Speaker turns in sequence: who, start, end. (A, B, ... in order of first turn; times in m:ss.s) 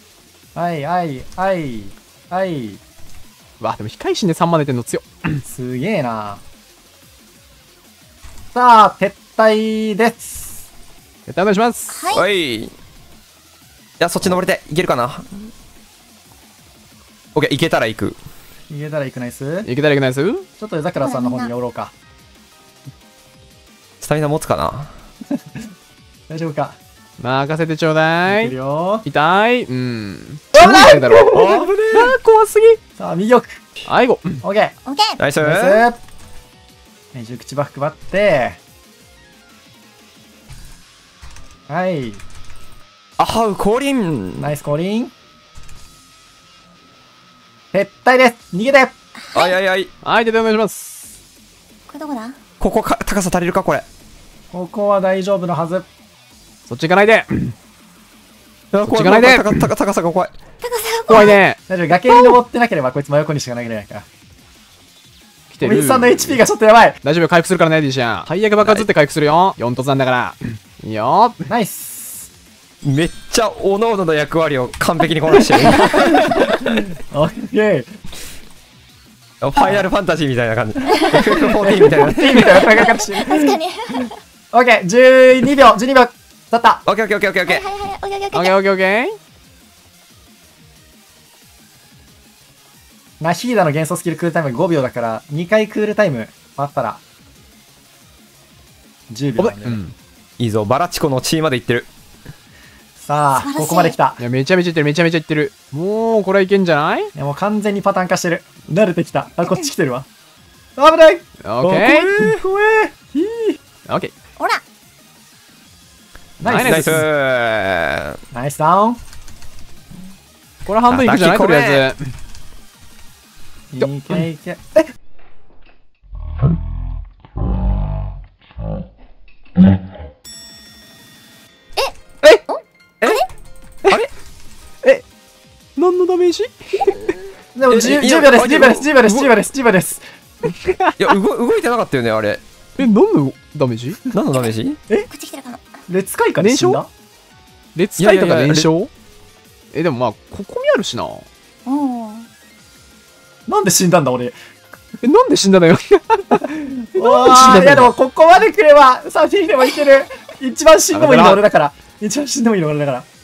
0:00.6-0:02.8 A
0:03.6-0:05.4 B
0:05.4-0:06.4 A
0:08.5-0:10.6 A
0:11.3-0:12.0 B
0:11.9-0:12.2 C
0:12.1-0:12.7 D
0:14.0-0:15.3 D
0:17.3-0:18.2 D
0:18.7-0:19.7 A
0:19.7-0:20.5 B
0:20.6-0:21.9 A
0:21.0-0:21.5 C
0:24.0-0:24.9 D
0:26.3-0:26.8 A
0:27.2-0:28.5 B
0:28.3-0:29.1 A
0:29.1-0:32.8 B
0:30.6-0:31.8 A
0:31.3-0:32.2 D
0:33.0-0:33.6 A
0:33.9-0:34.4 B
0:34.4-0:34.8 A
0:34.9-0:35.2 C
0:35.2-0:35.8 D
0:35.4-0:36.0 A
0:37.1-0:38.6 A
0:41.7-0:42.2 A
0:43.2-0:44.5 D
0:44.4-0:45.1 A
0:47.7-0:48.9 A
0:49.2-0:49.6 C
0:49.3-0:49.9 D
0:50.0-0:51.1 B
0:51.9-0:52.4 C
0:52.6-0:53.8 D
0:54.5-0:55.9 A
0:56.7-0:57.5 B
0:58.7-1:00.3 D
0:58.8-0:59.7 B
1:00.6-1:01.4 C
1:01.1-1:02.4 B
1:01.7-1:04.0 A
1:05.5-1:06.4 B
1:05.6-1:07.0 A
1:07.0-1:11.5 B
1:08.6-1:08.9 D
1:11.5-1:12.3 A
1:12.8-1:16.5 D
1:15.7-1:17.9 A
1:19.4-1:22.6 D
1:19.6-1:19.8 A
1:20.9-1:21.4 C
1:21.3-1:23.6 A
1:22.4-1:24.2 C
1:24.5-1:26.8 A
1:26.9-1:27.6 D
1:27.5-1:28.6 C
1:28.3-1:29.2 B
1:33.2-1:37.0 A
1:39.1-1:39.8 A
1:39.4-1:40.0 B
1:40.4-1:41.9 D
1:43.0-1:44.2 A
1:43.4-1:44.0 C
1:44.2-1:47.1 B
1:47.2-1:50.1 A
1:49.4-1:49.7 C
1:50.8-1:53.1 A
1:51.4-1:52.2 B
1:52.1-1:52.4 D
1:53.2-1:54.1 B
1:56.4-1:57.0 A
1:56.4-1:57.0 B
1:56.6-1:58.2 D
1:58.3-1:59.0 A
2:00.7-2:02.1 B
2:00.9-2:01.9 D
2:03.7-2:04.8 A
2:03.8-2:04.2 B
2:12.5-2:13.3 C
2:15.8-2:17.2 B
2:17.6-2:20.0 A
2:17.7-2:19.3 D
2:20.4-2:21.1 B
2:21.0-2:22.4 D
2:22.8-2:24.0 B
2:24.1-2:24.8 D
2:25.1-2:25.6 C
2:25.9-2:26.9 A
2:26.4-2:26.8 B
2:27.8-2:28.9 B
2:28.0-2:28.7 D
2:29.7-2:31.3 B
2:31.7-2:32.3 C
2:33.5-2:34.4 A
2:35.0-2:37.9 B
2:37.0-2:43.1 A
2:40.9-2:41.4 B